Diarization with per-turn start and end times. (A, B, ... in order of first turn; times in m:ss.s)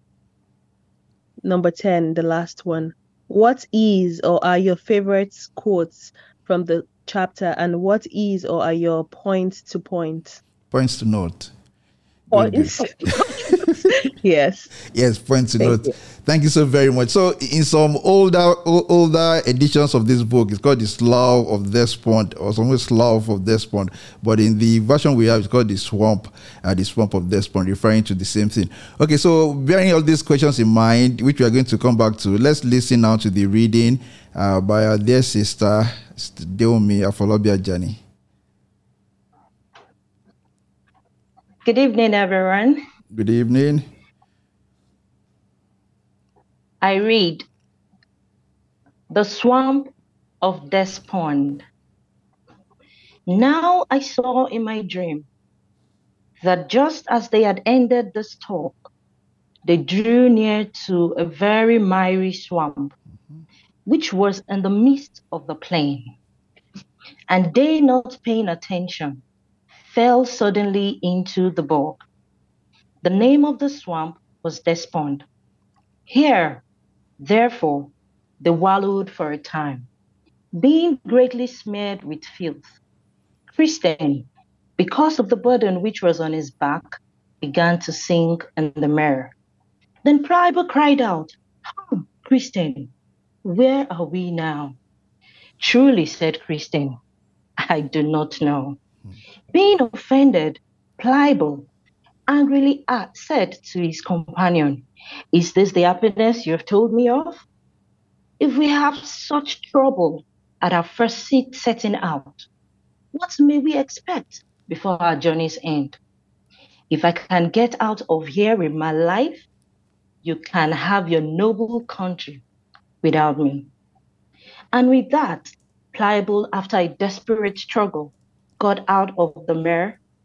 0:01.4-0:10.4 A
0:10.7-0:11.5 B
0:12.3-0:13.4 B
0:12.3-0:14.7 A
0:14.9-0:38.0 B
0:15.6-0:15.9 A
0:41.6-0:42.8 C
0:43.1-0:43.9 B
0:46.8-0:47.4 C
0:49.1-0:49.9 C
0:50.4-0:51.6 C
0:53.3-0:55.3 C
0:56.4-0:58.9 C
0:59.6-1:02.9 C
1:03.9-1:06.1 C
1:07.3-1:09.2 C
1:09.9-1:12.0 C
1:13.0-1:15.2 C
1:16.1-1:16.6 C
1:17.2-1:19.9 C
1:20.5-1:22.6 C
1:23.6-1:24.3 C
1:24.8-1:29.3 C
1:30.0-1:32.9 C
1:33.4-1:34.8 C
1:35.6-1:37.0 C
1:37.6-1:38.8 C
1:39.5-1:41.7 C
1:42.3-1:47.4 C
1:48.4-1:52.5 C
1:53.1-1:56.0 C
1:56.9-1:59.4 C
2:00.2-2:02.4 C
2:03.0-2:03.7 C
2:04.7-2:10.0 C